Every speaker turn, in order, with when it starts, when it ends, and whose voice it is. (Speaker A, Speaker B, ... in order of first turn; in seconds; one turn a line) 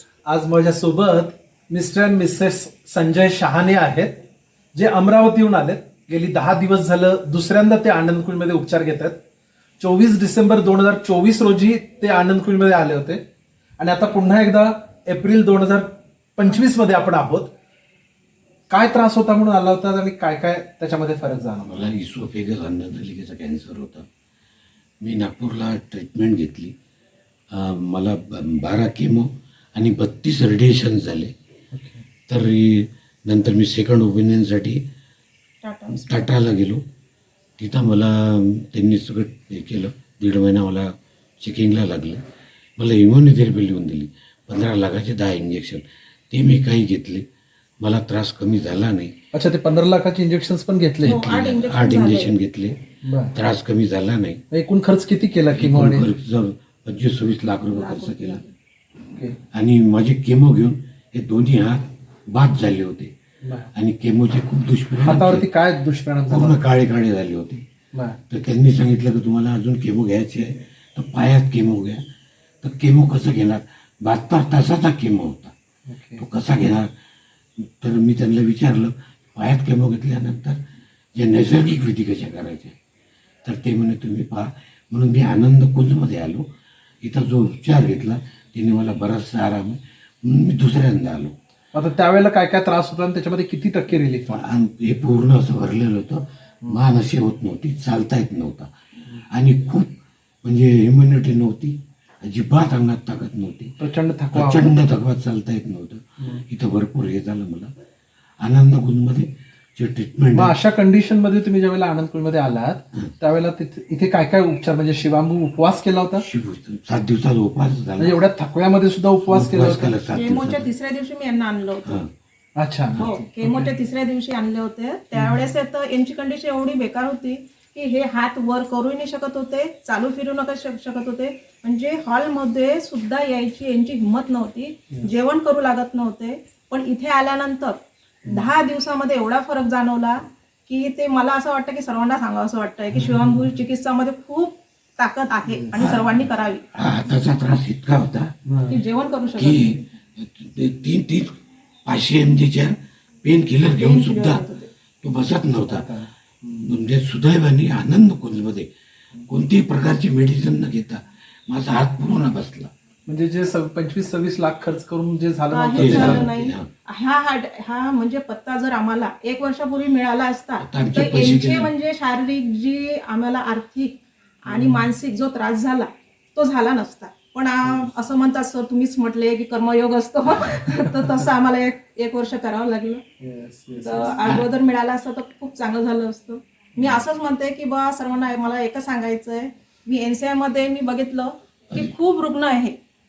Speaker A: 0.2-4.2
Speaker A: 4.7-9.2
Speaker A: 9.8-13.2
Speaker A: 13.8-17.5
Speaker A: 18.7-21.9
Speaker B: 21.6-24.1
Speaker B: 25.0-26.7
Speaker B: 27.5-31.3
Speaker A: 31.7-32.0
Speaker B: 32.3-34.8
Speaker C: 35.6-36.3
Speaker B: 35.9-36.8
Speaker B: 37.6-42.2
Speaker B: 42.8-47.2
Speaker B: 47.8-49.1
Speaker A: 49.3-51.2
Speaker C: 51.0-52.3
Speaker B: 51.0-52.8
Speaker A: 53.0-53.4
Speaker B: 53.3-54.4
Speaker A: 54.5-56.1
Speaker B: 55.5-58.4
Speaker C: 57.7-58.5
Speaker B: 59.5-63.1
Speaker A: 63.4-63.7
Speaker B: 63.7-65.5
Speaker A: 65.0-66.6
Speaker B: 66.3-67.6
Speaker A: 67.9-68.2
Speaker B: 68.3-72.0
Speaker B: 72.6-75.5
Speaker A: 75.8-76.2
Speaker B: 76.2-76.9
Speaker B: 77.8-80.6
Speaker B: 81.1-82.8
Speaker B: 83.4-86.5
Speaker B: 87.0-91.3
Speaker A: 91.7-94.5
Speaker B: 94.3-98.7
Speaker B: 99.3-99.9
Speaker B: 100.4-103.8
Speaker A: 103.8-104.8
Speaker B: 104.3-107.7
Speaker B: 108.4-110.5
Speaker A: 110.3-116.2
Speaker B: 116.2-118.2
Speaker A: 118.0-119.9
Speaker B: 119.3-120.7
Speaker C: 120.1-122.0
Speaker B: 121.8-122.1
Speaker A: 122.6-123.7
Speaker C: 123.0-146.7
Speaker A: 125.1-125.5
Speaker A: 138.2-138.5
Speaker A: 142.9-143.5
Speaker A: 145.5-145.9
Speaker B: 145.8-148.4
Speaker A: 148.4-148.8
Speaker C: 148.7-149.8
Speaker B: 149.4-154.4
Speaker C: 153.6-154.7
Speaker B: 155.0-155.9
Speaker A: 155.5-156.8
Speaker B: 156.6-158.7
Speaker B: 159.3-162.7
Speaker A: 163.1-166.3
Speaker C: 165.5-183.0
Speaker B: 165.8-166.7
Speaker B: 170.6-171.7
Speaker A: 174.5-174.9
Speaker A: 183.2-184.2
Speaker C: 183.8-192.8